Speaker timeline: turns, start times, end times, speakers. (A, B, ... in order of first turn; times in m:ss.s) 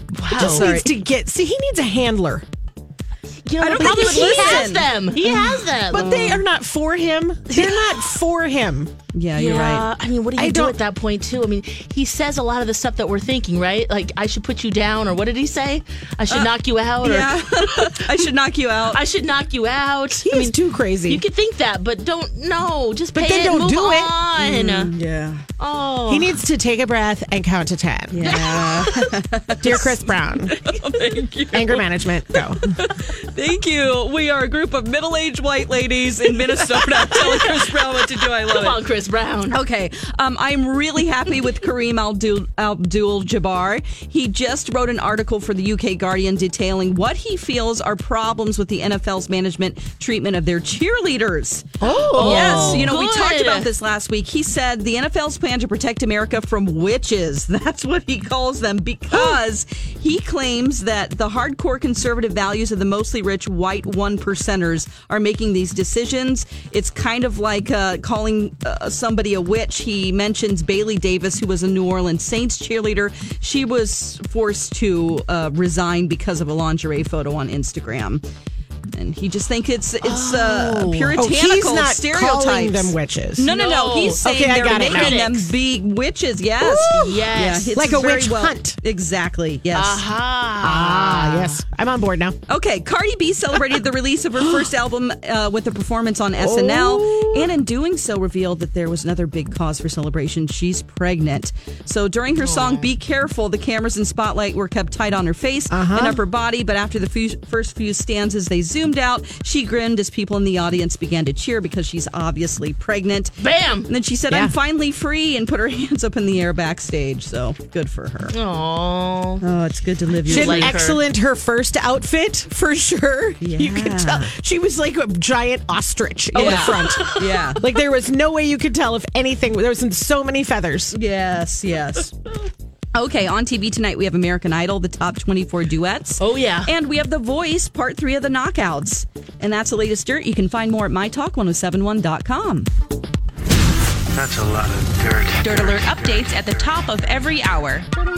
0:00.2-0:00.9 A
0:00.4-0:00.9 B
0:00.4-0:02.5 C
0:03.4-0:06.1 A
0:03.6-0:08.9 C
0:03.7-0:04.9 B
0:05.9-0:06.4 B
0:07.5-0:08.1 A
0:09.1-0:09.9 B
0:09.4-0:18.1 A
0:10.4-0:10.8 C
0:16.3-0:19.0 B
0:18.9-0:24.9 A
0:20.2-0:21.2 C
0:23.1-0:24.1 C
0:24.4-0:25.4 B
0:25.6-0:26.4 A
0:26.1-0:28.3 C
0:28.1-0:38.8 B
0:28.2-0:29.1 A
0:29.6-0:30.6 C
0:31.5-0:32.8 C
0:37.2-0:37.5 A
0:38.4-0:39.6 A
0:39.5-1:18.2 B
0:51.8-0:52.9 C
0:52.0-0:53.7 A
1:18.9-1:30.1 B
1:20.1-1:21.2 A
1:21.2-1:23.5 C
1:23.5-1:25.5 A
1:24.2-1:25.2 C
1:26.6-1:27.2 C
1:27.0-1:27.8 A
1:27.7-1:28.8 C
1:29.7-1:31.6 A
1:30.6-1:32.4 C
1:32.5-1:53.4 B
1:34.4-1:34.7 C
1:36.4-1:37.5 C
1:42.4-1:42.9 A
1:45.7-1:46.2 C
1:53.4-1:53.9 A
1:53.9-1:58.3 B
1:54.3-1:54.6 C
1:58.3-1:59.4 A
1:59.4-2:00.8 B
2:00.2-2:11.0 C
2:00.3-2:01.0 A
2:03.4-2:04.3 B
2:06.3-2:07.6 B
2:06.6-2:07.1 A
2:10.9-2:12.3 B
2:13.0-2:22.7 B
2:16.2-2:16.7 A
2:24.1-2:27.4 D
2:25.4-2:27.9 E